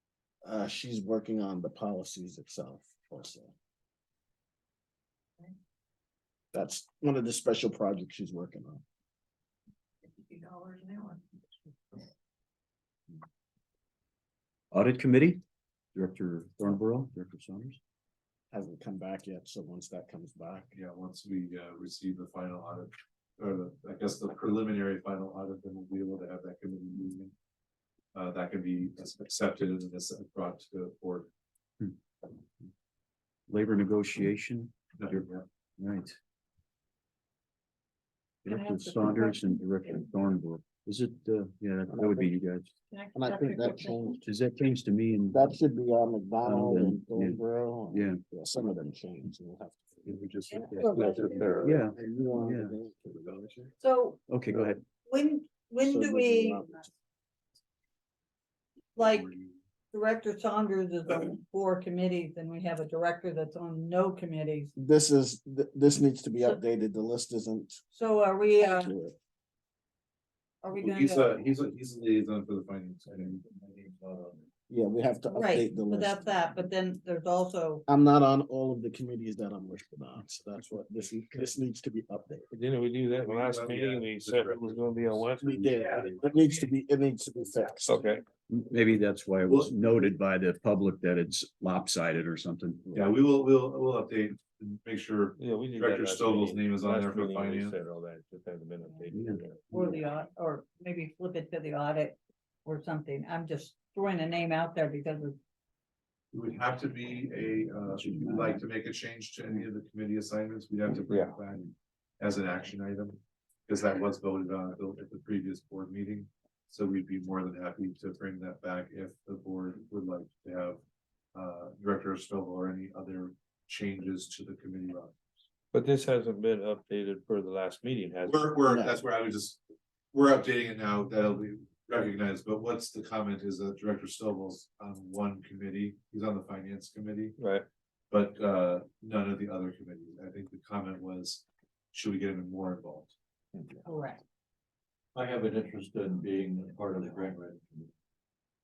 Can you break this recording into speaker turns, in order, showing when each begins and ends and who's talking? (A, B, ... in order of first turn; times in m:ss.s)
0:00.4-0:03.5 A
0:06.5-0:08.8 A
0:10.0-0:12.0 B
0:14.7-0:15.4 C
0:15.9-0:17.8 C
0:18.5-0:20.7 A
0:20.8-0:27.3 D
0:28.1-0:31.3 D
0:33.5-0:35.3 C
0:35.0-0:35.4 D
0:35.8-0:36.2 C
0:38.4-0:40.1 E
0:38.4-0:42.7 C
0:41.9-0:42.4 A
0:42.9-0:44.2 E
0:43.1-0:44.2 A
0:44.2-0:45.5 C
0:45.3-0:53.7 A
0:46.4-0:47.4 C
0:47.9-0:48.2 C
0:50.1-0:51.6 D
0:50.5-0:51.6 E
0:51.6-0:52.7 C
0:53.8-0:54.2 E
0:54.3-0:54.8 C
0:55.0-0:56.9 E
0:55.8-0:56.9 A
0:59.0-0:59.3 E
0:59.0-0:59.6 D
0:59.9-1:04.7 E
1:04.8-1:07.8 A
1:07.9-1:08.9 E
1:08.6-1:09.2 A
1:10.6-1:11.4 E
1:10.7-1:14.0 D
1:13.7-1:14.4 F
1:14.7-1:16.2 A
1:15.3-1:17.9 E
1:17.9-1:22.5 A
1:22.5-1:26.2 G
1:23.2-1:25.2 D
1:25.4-1:28.0 A
1:27.9-1:28.2 G
1:28.5-1:33.1 C
1:32.9-1:37.8 D
1:35.4-1:39.9 G
1:39.1-1:39.4 C
1:39.7-1:45.4 E
1:46.3-2:00.8 D
1:48.0-1:48.6 C
1:51.1-1:51.4 G
2:01.4-2:05.2 D
2:05.7-2:08.5 G
2:08.2-2:09.6 D
2:08.7-2:09.0 A
2:10.1-2:17.4 D
2:17.4-2:17.6 G
2:18.1-2:23.1 D
2:23.5-2:23.9 A
2:23.8-2:24.2 E
2:25.2-2:27.9 F